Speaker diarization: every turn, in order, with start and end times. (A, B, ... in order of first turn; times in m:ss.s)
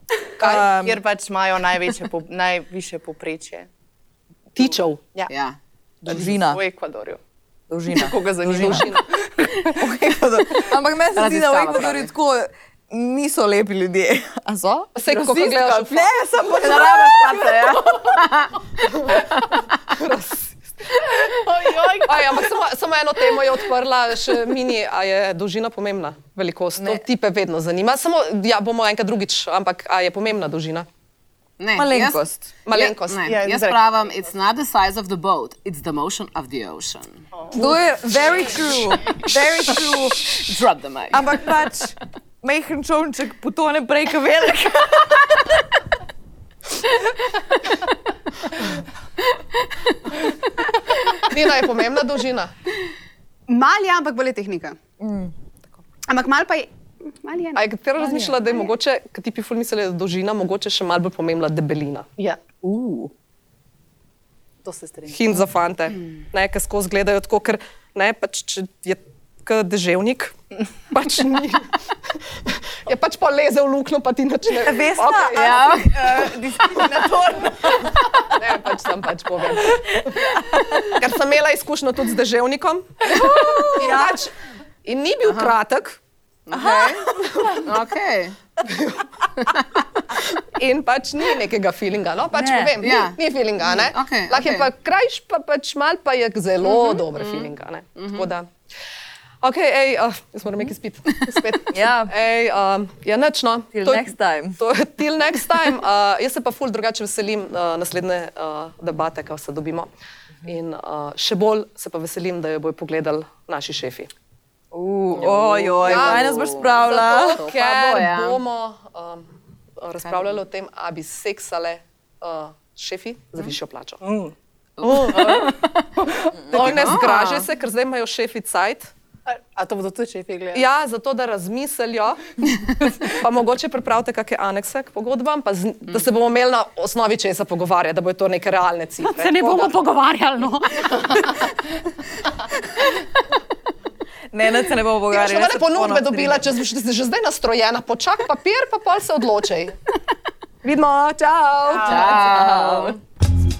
0:00.4-0:00.7 A
0:00.4-0:01.0 B
0:00.4-0:03.7 C
0:04.5-0:05.1 A
0:05.3-0:05.6 D
0:06.0-0:06.6 B
0:06.0-0:07.2 C
0:07.7-0:09.0 B
0:07.9-0:09.8 C
0:08.6-0:09.0 A
0:09.6-0:17.8 B
0:10.6-0:12.1 D
0:14.9-0:16.1 A
0:16.5-0:19.5 D
0:18.8-0:19.3 A
0:19.9-0:20.9 A
0:21.4-0:22.5 C
0:22.0-0:30.9 A
0:26.8-0:27.0 B
0:31.6-0:37.2 D
0:31.7-0:32.5 B
0:32.6-0:33.3 A
0:33.2-0:34.1 C
0:37.5-0:40.3 B
0:40.3-0:41.3 D
0:41.1-0:45.5 B
0:51.2-0:52.5 A
0:53.5-0:54.8 E
0:55.0-0:55.3 B
0:56.1-0:57.6 E
0:57.6-1:02.1 A
0:58.0-0:58.4 B
1:02.6-1:03.1 B
1:04.6-1:05.2 C
1:05.1-1:10.4 A
1:10.9-1:11.7 A
1:12.4-1:15.7 A
1:14.6-1:18.4 B
1:15.3-1:17.0 D
1:18.3-1:20.2 A
1:19.6-1:20.8 B
1:20.9-1:24.3 A
1:23.0-1:24.2 B
1:24.8-1:26.0 A
1:25.2-1:25.5 D
1:26.5-1:27.0 D
1:26.5-1:27.7 B
1:27.2-1:27.6 A
1:27.6-1:28.4 D
1:28.6-1:29.0 A
1:29.4-1:29.8 D
1:30.2-1:38.5 A
1:32.3-1:32.8 B
1:32.8-1:34.7 D
1:36.6-1:38.3 D
1:39.4-1:49.9 A
1:41.7-1:42.1 B
1:43.7-1:44.6 B
1:50.4-1:54.1 A
1:54.7-1:57.5 B
1:55.1-1:58.4 D
1:55.8-2:04.0 A
2:00.0-2:00.4 D
2:04.0-2:04.3 C
2:04.8-2:07.5 D
2:04.8-2:05.4 A
2:06.4-2:06.8 B
2:06.5-2:08.9 A
2:09.3-2:10.6 C
2:10.5-2:19.8 A
2:19.6-2:20.9 E
2:24.3-2:26.5 B
2:25.1-2:29.8 A
2:30.6-2:32.9 A
2:31.8-2:33.0 D